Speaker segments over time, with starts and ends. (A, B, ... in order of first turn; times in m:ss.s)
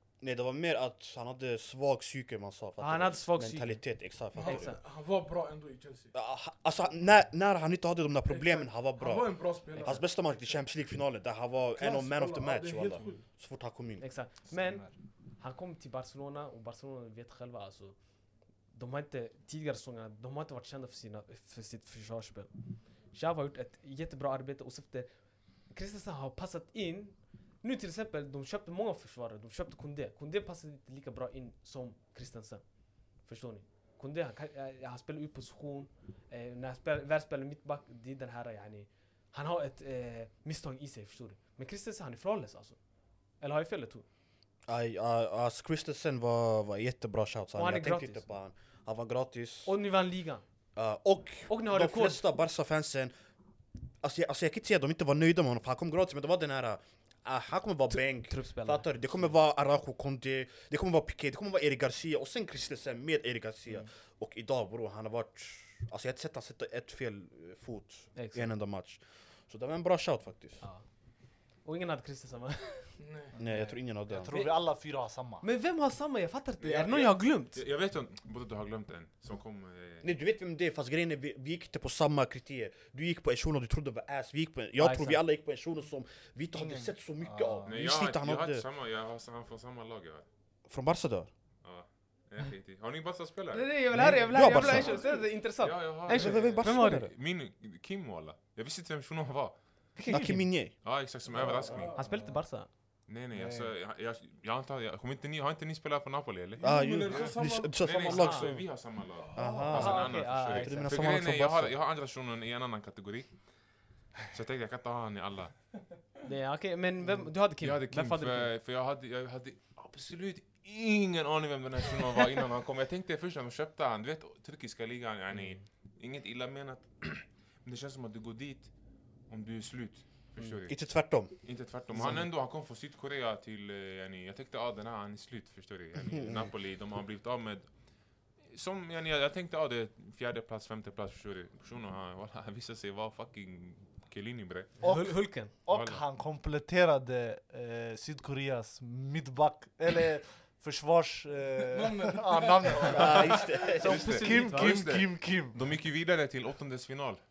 0:00.2-0:04.7 A
0:02.8-0:03.8 B
0:04.3-0:04.8 B
0:04.3-0:06.1 C
0:06.1-0:14.0 A
0:08.3-0:10.0 C
0:09.7-0:10.0 B
0:11.8-0:13.2 C
0:14.0-0:18.0 B
0:14.5-0:14.9 D
0:18.7-0:22.5 B
0:23.1-0:25.1 B
0:25.7-0:32.6 B
0:33.2-0:42.8 B
0:43.4-0:44.0 B
0:44.7-0:49.7 A
0:47.6-0:48.2 B
0:49.6-0:50.4 B
0:50.8-0:53.1 A
0:51.5-0:52.2 B
0:54.0-1:10.6 A
0:57.9-0:59.3 B
1:08.1-1:08.5 B
1:11.6-1:12.9 B
1:13.0-1:13.3 C
1:13.3-1:15.4 D
1:13.4-1:14.3 A
1:14.3-1:14.6 B
1:15.4-1:17.6 B
1:16.6-1:20.1 E
1:20.0-1:28.6 A
1:24.8-1:25.2 B
1:26.5-1:27.7 D
1:27.6-1:30.2 E
1:30.7-1:31.3 A
1:31.6-1:33.7 E
1:33.5-1:37.0 B
1:33.9-1:35.0 A
1:34.5-1:34.9 E
1:34.6-1:35.2 C
1:35.6-1:39.6 E
1:36.1-1:37.1 A
1:40.0-1:40.4 B
1:40.0-1:40.7 A
1:40.1-1:40.4 D
1:40.8-1:41.9 E
1:41.3-1:42.0 C
1:41.6-1:42.4 D
1:41.9-1:42.7 B
1:43.1-1:53.3 E
1:43.3-1:43.7 D
1:46.6-1:48.6 C
1:46.6-1:48.6 A
1:48.1-1:48.5 B
1:49.2-1:49.7 C
1:49.3-1:51.8 A
1:49.6-1:51.0 B
1:54.2-1:55.6 E
1:56.2-1:58.5 B
1:57.6-2:08.7 E
2:05.3-2:05.6 B
2:09.3-2:10.8 E
2:10.7-2:11.3 A
2:11.4-2:17.7 E
2:16.1-2:16.4 A
2:18.4-2:24.8 E
2:24.8-2:35.6 D
2:24.8-2:25.5 B
2:25.5-2:26.0 E
2:31.6-2:33.4 C
2:32.9-2:34.2 A
2:33.1-2:37.2 E
2:33.8-2:34.9 B